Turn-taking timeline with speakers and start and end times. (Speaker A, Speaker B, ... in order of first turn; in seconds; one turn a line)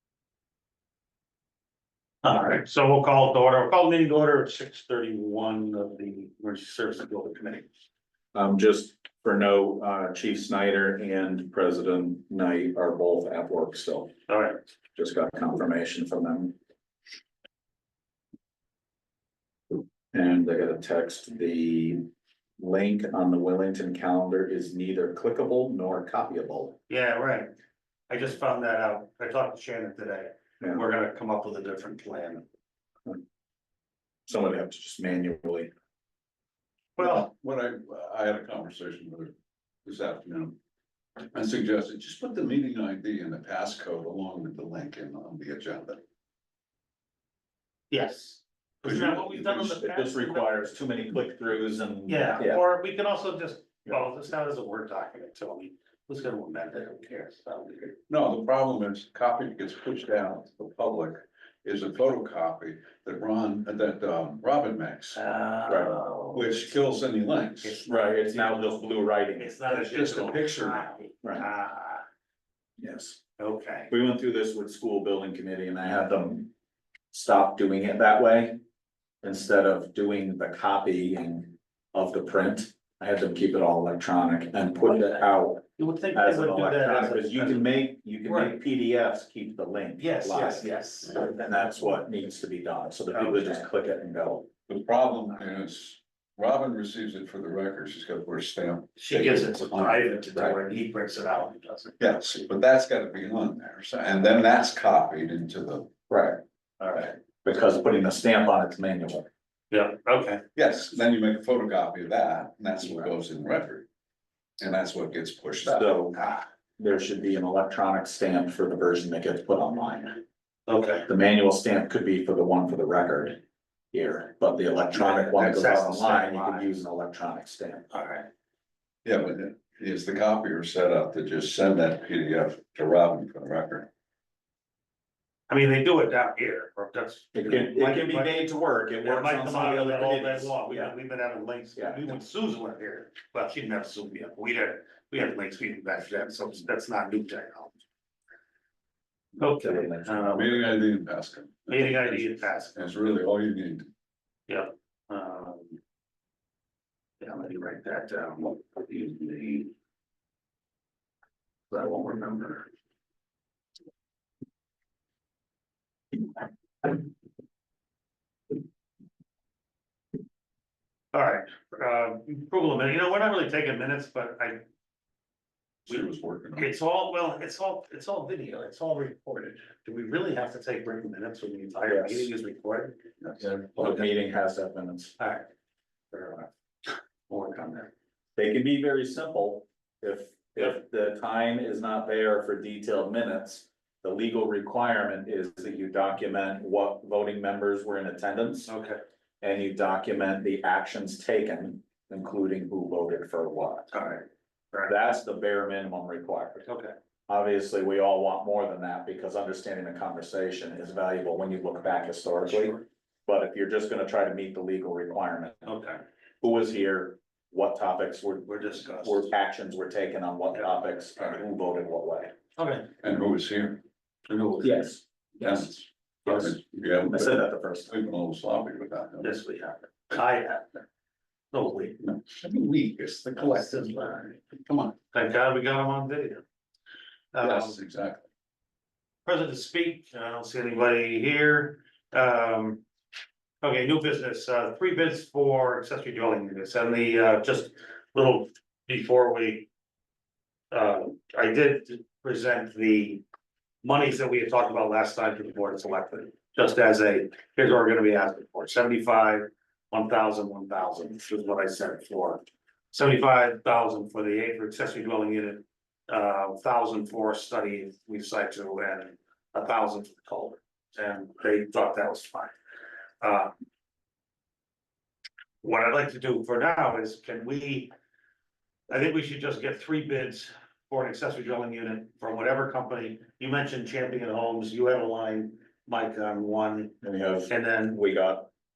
Speaker A: 2.2-7.7
Speaker B: 8.3-14.1
Speaker A: 14.3-14.6
Speaker B: 14.9-16.6
Speaker B: 20.1-22.1
Speaker B: 22.6-26.8
Speaker A: 26.9-27.5
Speaker A: 28.1-32.5
Speaker B: 34.3-35.7
Speaker C: 37.0-39.3
Speaker A: 37.0-37.3
Speaker C: 39.8-40.6
Speaker C: 41.3-46.0
Speaker A: 47.9-50.6
Speaker C: 48.8-49.8
Speaker B: 49.5-52.6
Speaker A: 52.1-58.0
Speaker C: 58.1-67.8
Speaker A: 65.2-66.8
Speaker A: 67.6-68.8
Speaker B: 67.8-69.5
Speaker A: 69.4-72.0
Speaker C: 69.6-71.0
Speaker B: 72.8-73.2
Speaker A: 73.4-73.9
Speaker B: 73.9-76.5
Speaker B: 77.1-78.6
Speaker B: 79.2-94.5
Speaker A: 85.8-88.6
Speaker A: 90.0-91.3
Speaker A: 93.1-93.6
Speaker C: 94.7-100.5
Speaker A: 99.0-101.9
Speaker C: 102.0-105.9
Speaker B: 106.1-109.3
Speaker A: 109.7-110.4
Speaker C: 110.5-113.8
Speaker C: 114.6-116.0
Speaker B: 115.6-116.2
Speaker A: 116.2-116.4
Speaker B: 116.8-120.2
Speaker A: 120.7-121.1
Speaker B: 121.1-123.4
Speaker B: 123.9-127.9
Speaker A: 124.9-126.7
Speaker A: 127.9-128.3
Speaker C: 129.0-133.9
Speaker A: 135.5-138.4
Speaker B: 137.3-140.9
Speaker A: 139.0-147.8
Speaker B: 141.8-142.1
Speaker A: 149.4-150.7
Speaker B: 149.4-150.5
Speaker C: 150.3-153.9
Speaker A: 151.7-152.9
Speaker A: 154.5-155.8
Speaker A: 157.2-159.7
Speaker A: 161.7-162.7
Speaker A: 171.1-174.6
Speaker C: 175.8-176.7
Speaker A: 176.6-183.0
Speaker B: 181.9-182.3
Speaker C: 183.2-183.7
Speaker B: 183.5-185.2
Speaker A: 183.8-184.1
Speaker A: 185.2-185.5
Speaker A: 186.1-186.5
Speaker A: 187.3-187.9
Speaker B: 188.3-198.7
Speaker A: 198.7-199.0
Speaker B: 199.4-203.9
Speaker A: 203.9-204.9
Speaker B: 204.8-206.7
Speaker A: 206.6-206.9
Speaker B: 207.3-215.7
Speaker A: 212.5-212.8
Speaker A: 215.7-216.0
Speaker B: 216.4-222.3
Speaker A: 218.5-219.3
Speaker A: 222.6-222.9
Speaker C: 223.0-223.8
Speaker A: 224.3-224.8
Speaker B: 224.6-225.7
Speaker C: 225.4-229.4
Speaker A: 226.2-226.5
Speaker B: 227.0-227.9
Speaker A: 229.2-230.8
Speaker A: 231.5-232.0
Speaker C: 232.0-234.9
Speaker A: 233.4-234.3
Speaker A: 235.1-236.4
Speaker A: 237.3-237.8
Speaker C: 237.4-238.2
Speaker A: 239.2-242.8
Speaker A: 243.6-249.7
Speaker A: 250.7-253.2
Speaker A: 253.8-272.5
Speaker A: 273.2-273.5
Speaker A: 275.6-277.9
Speaker A: 278.9-286.9
Speaker B: 287.0-288.5
Speaker A: 287.5-288.0